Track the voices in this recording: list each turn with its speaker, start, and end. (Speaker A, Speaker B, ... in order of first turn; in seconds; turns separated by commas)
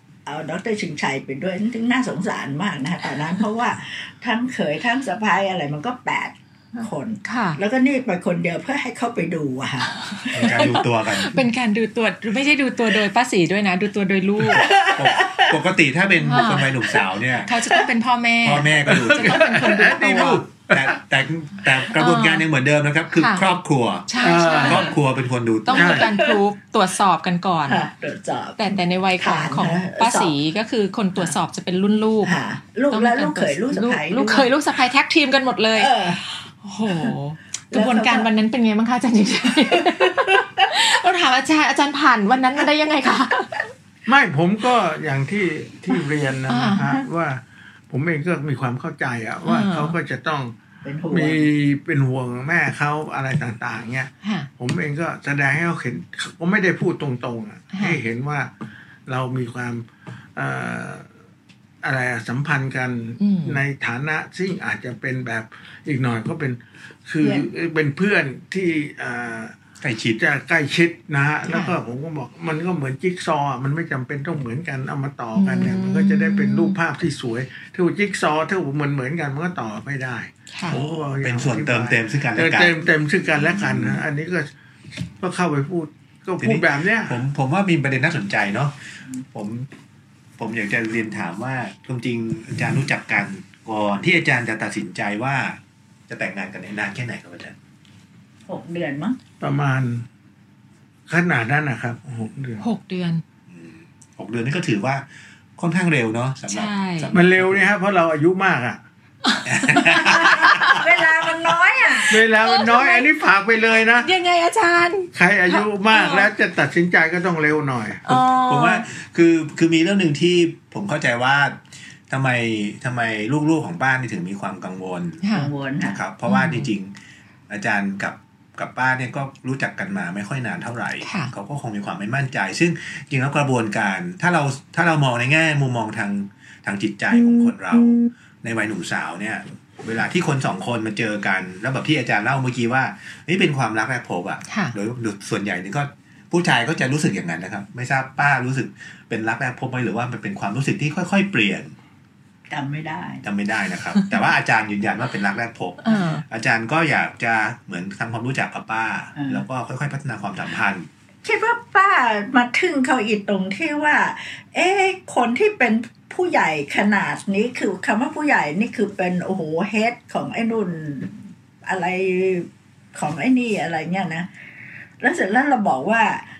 Speaker A: 0.3-10.7, Speaker B: 6.8-7.6, Speaker B: 10.2-14.7, Speaker C: 10.3-11.4, Speaker A: 14.5-15.6, Speaker C: 14.7-17.5, Speaker B: 16.3-16.9, Speaker B: 17.4-20.4, Speaker C: 18.4-26.0, Speaker D: 18.9-20.9, Speaker B: 22.0-22.4, Speaker B: 23.1-23.4, Speaker B: 24.1-24.9, Speaker D: 24.2-24.9, Speaker B: 25.7-27.8, Speaker D: 25.8-26.1, Speaker A: 25.9-26.4, Speaker A: 27.7-30.4, Speaker B: 28.6-32.4, Speaker A: 32.2-34.5, Speaker B: 32.9-35.9, Speaker A: 35.8-36.2, Speaker B: 36.6-43.6, Speaker A: 37.7-38.3, Speaker A: 39.7-40.7, Speaker D: 44.1-50.5, Speaker B: 46.5-47.0, Speaker B: 49.5-50.0, Speaker A: 50.8-51.5, Speaker D: 51.1-58.5, Speaker B: 54.2-54.5, Speaker B: 57.7-58.0, Speaker D: 59.1-59.9, Speaker D: 60.4-61.0, Speaker D: 61.8-69.5, Speaker B: 63.2-63.6, Speaker A: 67.2-67.5, Speaker C: 69.8-70.2, Speaker D: 70.2-84.5, Speaker B: 71.5-71.8, Speaker B: 75.4-76.8, Speaker B: 80.5-80.8, Speaker C: 80.7-82.8, Speaker C: 83.4-84.0, Speaker D: 85.2-87.2, Speaker C: 86.4-89.7, Speaker C: 90.4-95.6, Speaker C: 96.1-97.6, Speaker A: 98.5-99.2, Speaker D: 99.4-100.0, Speaker D: 101.1-102.6, Speaker B: 102.6-103.2, Speaker C: 103.5-105.1, Speaker C: 105.6-107.7, Speaker B: 106.5-107.1, Speaker D: 107.1-108.8, Speaker B: 109.3-110.8, Speaker C: 109.5-110.8, Speaker A: 109.7-112.2, Speaker D: 112.1-114.1, Speaker B: 112.4-113.1, Speaker B: 114.0-116.3, Speaker D: 115.2-118.0, Speaker B: 118.1-118.9, Speaker C: 118.1-125.2, Speaker B: 125.2-125.5, Speaker A: 125.3-126.0, Speaker C: 125.8-126.9, Speaker B: 126.3-126.7, Speaker C: 127.5-151.7, Speaker B: 131.0-131.3, Speaker B: 144.5-144.8, Speaker A: 152.5-153.2, Speaker C: 153.2-160.9, Speaker B: 155.8-156.2, Speaker A: 159.2-159.4, Speaker A: 161.2-174.3, Speaker A: 175.0-176.2